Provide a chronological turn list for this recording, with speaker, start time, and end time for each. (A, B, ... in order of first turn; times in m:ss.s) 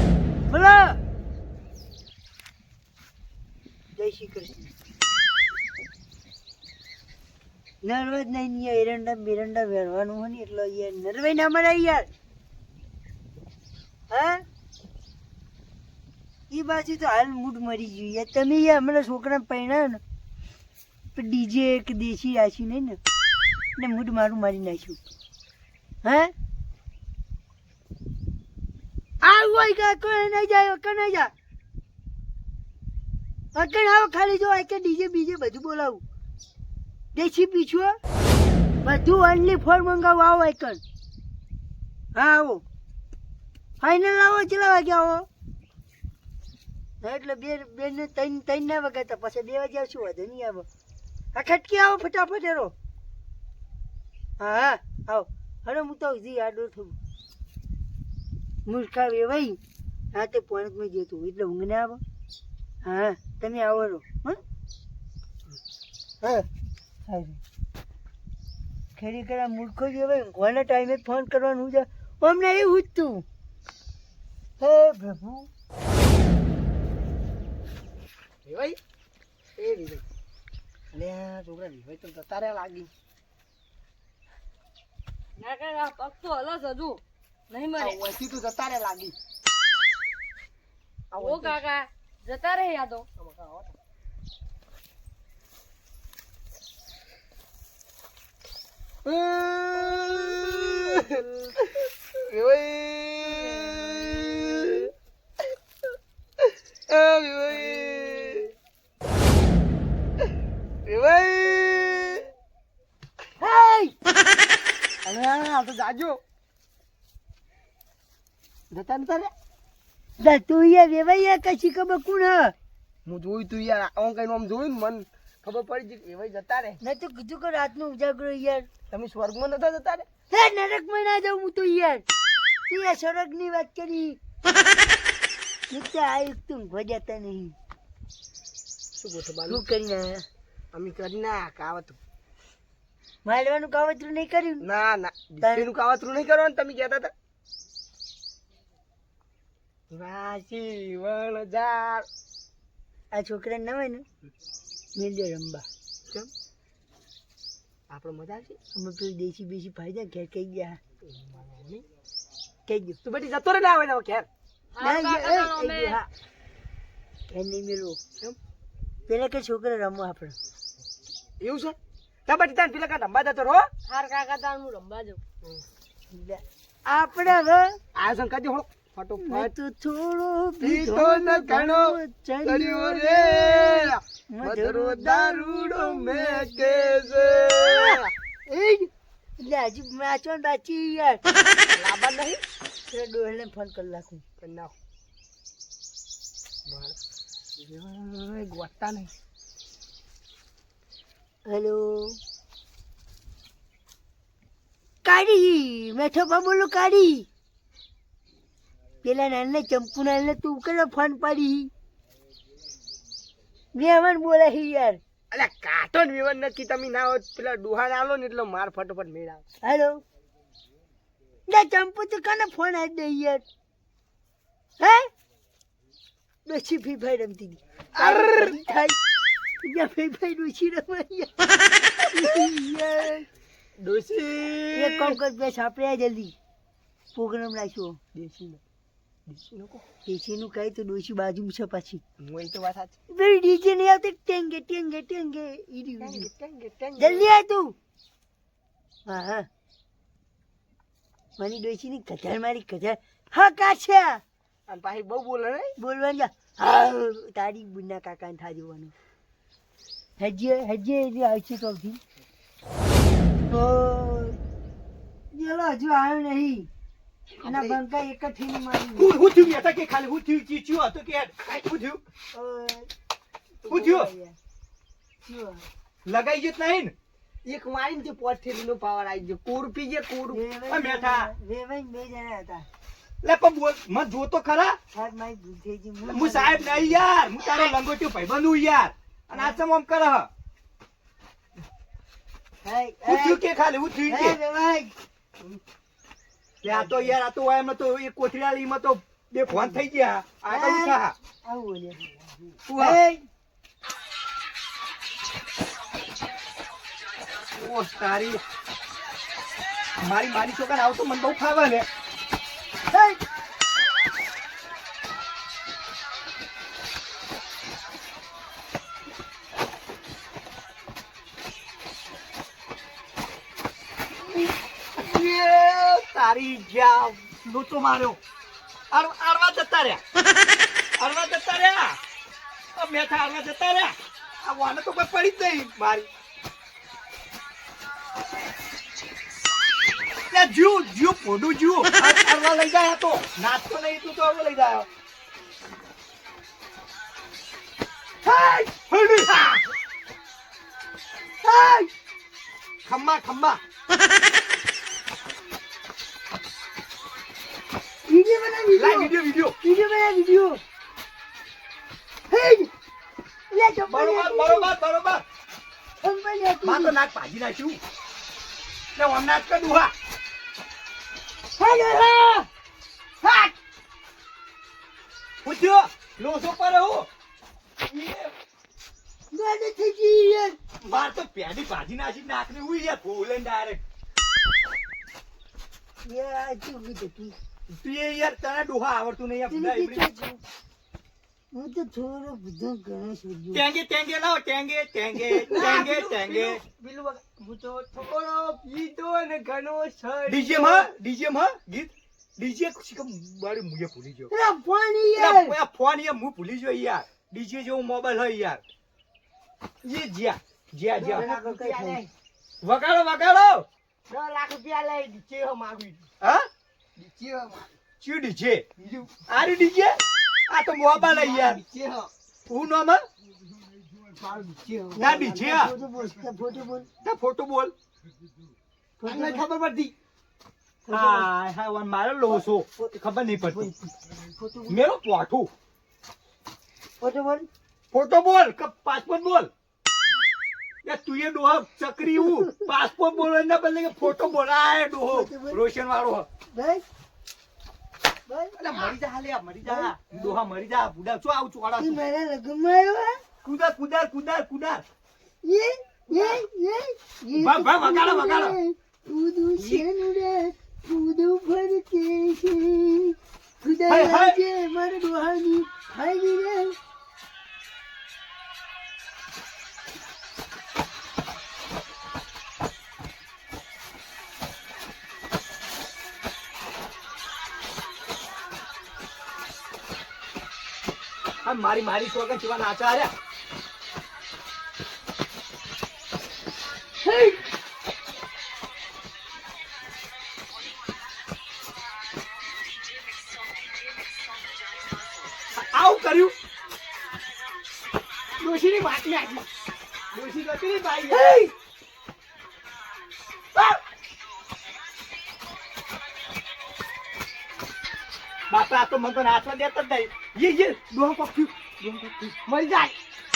0:00.5-0:01.0 A
0:04.0-0:04.7 A
0:07.8-0:12.1 A
0:14.1-0:14.4 A
0:16.5-0:20.0 A
0:21.2-0:23.0 A
0:23.8-0:25.0 A
0:26.0-0:26.3 A
0:29.2-0:31.3 A
0:33.5-0:36.0 A
0:37.1-0:38.0 A
0:38.8-0:40.8 A
0:42.2-0:42.6 A
0:43.8-0:45.3 A
0:47.0-0:50.7 A
0:51.3-0:52.7 A
0:54.4-0:57.0 A
0:58.7-0:59.6 A
1:00.1-1:02.0 A
1:02.8-1:04.4 A
1:07.1-1:07.4 A
1:09.0-1:13.2 A
1:14.6-1:15.5 A
1:18.5-1:18.8 B
1:19.6-1:20.0 B
1:20.9-1:22.9 B
1:25.4-1:28.0 C
1:27.8-1:29.2 B
1:31.1-1:31.6 B
1:31.1-1:33.1 C
1:33.2-1:33.7 B
1:39.0-1:41.3 B
1:42.2-1:44.9 B
1:46.9-1:48.5 B
1:50.9-1:52.3 B
1:53.4-1:54.0 A
1:55.0-1:56.2 B
1:58.7-1:59.3 B
2:00.2-2:02.5 A
2:03.1-2:06.8 B
2:06.8-2:08.7 A
2:08.9-2:10.1 B
2:10.3-2:12.0 A
2:12.7-2:14.2 A
2:15.7-2:17.6 A
2:19.0-2:19.6 B
2:19.5-2:20.2 A
2:20.7-2:22.0 B
2:23.2-2:24.7 A
2:24.6-2:27.1 B
2:25.4-2:25.7 A
2:29.9-2:32.1 B
2:33.1-2:34.0 A
2:35.0-2:35.7 A
2:37.9-2:38.5 B
2:38.7-2:40.8 A
2:41.1-2:41.8 B
2:42.7-2:43.0 A
2:43.0-2:44.3 B
2:44.7-2:46.0 C
2:44.8-2:46.1 A
2:47.3-2:48.0 A
2:49.1-2:50.4 A
2:51.4-2:51.8 B
2:52.3-2:53.7 B
2:53.9-2:55.2 C
2:56.1-2:57.8 A
2:58.0-2:59.5 B
2:59.2-3:11.2 A
3:00.6-3:08.1 B
3:11.8-3:12.4 B
3:12.9-3:14.2 A
3:14.4-3:14.7 B
3:16.7-3:17.0 B
3:17.6-3:19.1 B
3:21.5-3:22.2 A
3:25.0-3:27.3 A
3:29.0-3:31.7 A
3:33.7-3:35.0 A
3:35.3-3:39.4 B
3:39.6-3:40.0 A
3:41.5-3:43.4 A
3:44.8-3:45.1 A
3:46.5-3:49.0 A
3:48.0-3:48.6 B
3:49.6-3:53.3 A
3:53.8-3:55.2 B
3:54.7-3:56.4 A
3:57.1-3:58.0 A
3:58.2-3:58.6 B
3:59.3-3:59.8 B
4:00.1-4:02.0 A
4:02.2-4:03.0 B
4:03.1-4:06.3 A
4:06.0-4:07.3 B
4:07.0-4:07.8 A
4:09.1-4:09.5 A
4:11.4-4:14.2 A
4:14.7-4:15.7 B
4:15.8-4:18.9 A
4:20.2-4:22.0 A
4:23.5-4:24.4 A
4:25.3-4:26.7 A
4:27.4-4:27.8 B
4:27.4-4:29.2 A
4:29.0-4:32.0 D
4:32.3-4:32.9 A
4:33.6-4:34.4 A
4:33.7-4:34.1 D
4:35.2-4:35.7 A
4:36.1-4:36.9 D
4:37.4-4:40.4 B
4:40.3-4:42.7 A
4:40.7-4:41.3 D
4:43.2-4:44.8 D
4:44.9-4:47.0 A
4:46.1-4:50.3 D
4:52.6-4:53.4 A
4:53.0-4:54.4 D
4:54.1-4:54.9 A
4:56.6-5:01.2 D
4:56.7-4:57.1 B
4:59.5-4:59.8 B
5:00.5-5:02.0 A
5:02.7-5:03.0 D
5:02.8-5:03.3 A
5:07.6-5:08.4 D
5:10.0-5:11.9 D
5:12.9-5:13.2 A
5:25.0-5:28.2 D
5:28.9-5:30.0 D
5:31.0-5:32.0 D
5:32.8-5:36.1 D
5:40.3-5:44.9 D
5:48.3-5:48.7 A
5:48.9-5:49.4 D
5:51.4-5:51.9 A
5:52.8-5:53.6 D
5:58.1-6:00.6 A
5:58.8-5:59.6 D
6:02.3-6:02.7 A
6:03.5-6:04.7 A
6:03.9-6:05.2 D
6:06.0-6:07.0 A
6:06.6-6:07.8 D
6:09.0-6:09.9 D
6:11.6-6:12.5 A
6:13.2-6:13.5 B
6:15.4-6:17.1 D
6:17.9-6:18.3 D
6:19.3-6:20.6 A
6:20.8-6:23.8 D
6:26.0-6:27.4 A
6:27.7-6:30.0 D
6:29.5-6:30.4 A
6:31.5-6:33.6 A
6:33.5-6:36.6 D
6:35.4-6:40.9 B
6:40.3-6:44.3 D
6:44.3-6:45.6 A
6:45.2-6:48.6 D
6:49.8-6:51.3 D
6:51.0-6:52.1 B
6:51.1-6:52.0 A
6:52.6-6:53.7 D
6:54.1-6:56.1 B
6:56.2-6:56.5 D
6:57.0-6:57.7 B
6:58.0-6:58.7 D
6:58.8-6:59.2 B
6:59.3-7:01.6 D
7:01.0-7:02.1 B
7:02.5-7:03.0 D
7:04.2-7:05.1 B
7:05.0-7:06.9 A
7:05.0-7:05.7 D
7:07.0-7:07.7 D
7:09.0-7:09.4 A
7:09.1-7:09.9 B
7:10.9-7:11.3 A
7:10.9-7:13.7 D
7:13.6-7:14.8 A
7:14.7-7:15.5 D
7:17.0-7:17.5 A
7:17.9-7:19.5 D
7:20.8-7:26.3 D
7:25.1-7:25.6 A
7:26.5-7:26.8 A
7:28.3-7:28.6 A
7:28.6-7:32.0 D
7:31.8-7:33.2 A
7:33.4-7:34.8 D
7:35.4-7:46.8 A
7:37.3-7:38.6 D
7:39.6-7:39.9 D
7:43.9-7:44.4 D
8:01.4-8:03.1 D
8:07.1-8:07.4 A
8:15.6-8:16.4 D
8:18.4-8:19.5 B
8:20.1-8:21.5 B
8:21.1-8:21.5 A
8:28.5-8:32.4 D
8:32.5-8:32.9 B